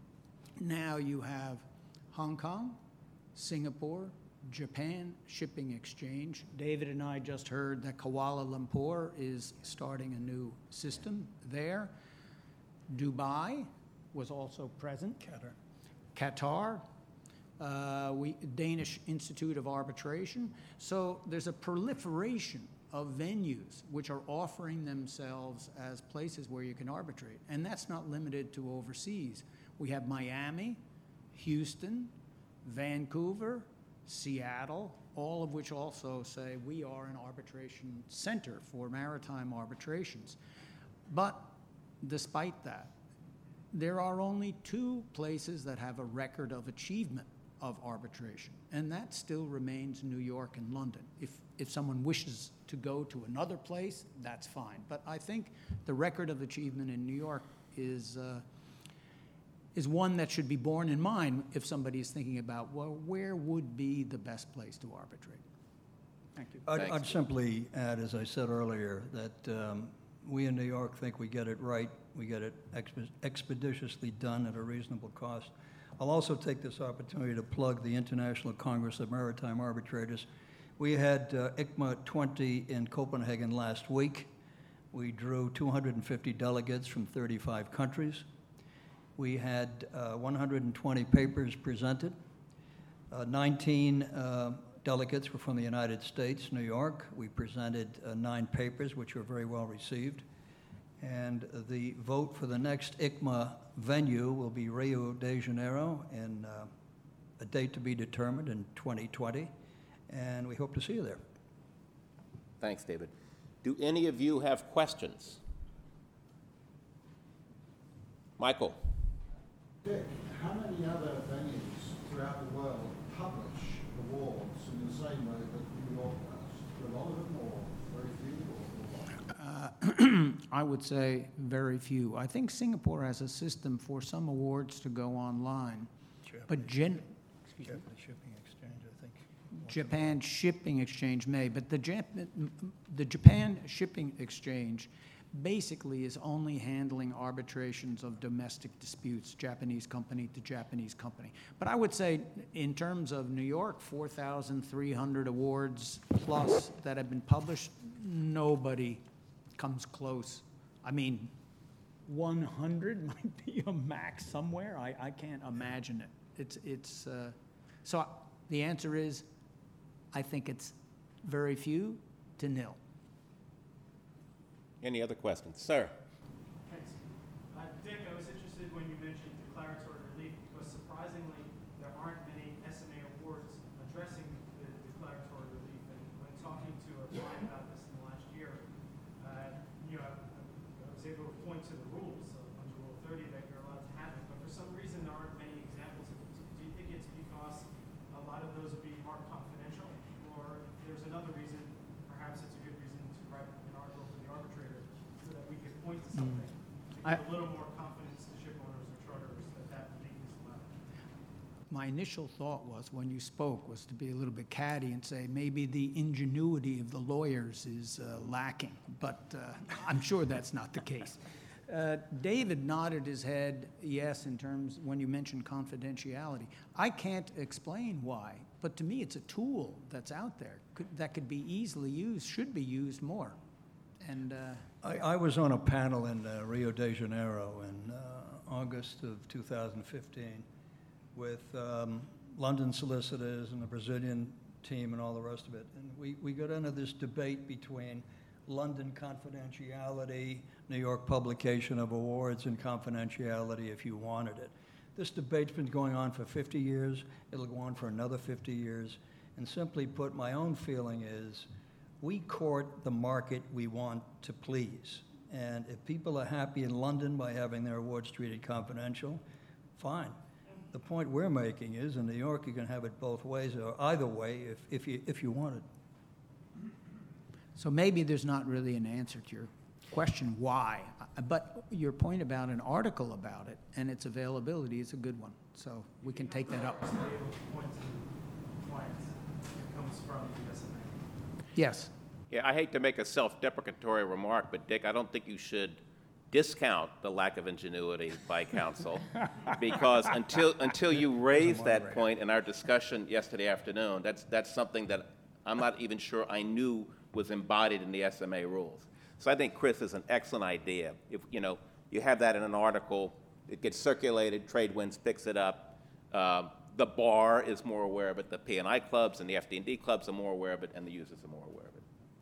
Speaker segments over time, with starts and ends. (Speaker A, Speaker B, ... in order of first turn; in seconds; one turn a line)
Speaker A: 0.6-2.8
Speaker A: 3.3-11.9
Speaker A: 12.9-15.5
Speaker A: 16.1-16.8
Speaker A: 17.6-30.8
Speaker A: 31.3-32.1
Speaker A: 32.6-40.4
Speaker A: 41.1-42.9
Speaker A: 43.7-58.4
Speaker A: 59.7-65.4
Speaker A: 66.4-66.6
Speaker B: 66.7-80.2
Speaker B: 80.8-84.3
Speaker B: 84.9-88.2
Speaker B: 89.2-92.1
Speaker B: 93.1-100.2
Speaker B: 101.0-106.7
Speaker B: 107.4-109.5
Speaker B: 110.1-111.2
Speaker C: 112.6-113.1
Speaker C: 113.6-115.4
Speaker C: 118.4-118.8
Speaker D: 119.8-129.2
Speaker A: 129.3-135.9
Speaker B: 136.3-136.6
Speaker A: 136.5-137.8
Speaker B: 137.6-140.1
Speaker A: 139.5-159.0
Speaker A: 159.6-161.3
Speaker A: 162.0-169.3
Speaker A: 170.1-172.8
Speaker C: 174.8-175.9
Speaker E: 176.6-188.7
Speaker E: 189.2-210.8
Speaker A: 206.2-206.4
Speaker A: 211.7-233.4
Speaker A: 234.0-234.7
Speaker B: 234.8-240.4
Speaker B: 241.1-261.5
Speaker B: 262.0-269.2
Speaker B: 269.8-270.1
Speaker B: 270.7-275.6
Speaker A: 277.5-286.9
Speaker E: 286.0-291.1
Speaker A: 291.5-291.9
Speaker C: 292.3-295.8
Speaker C: 296.3-321.8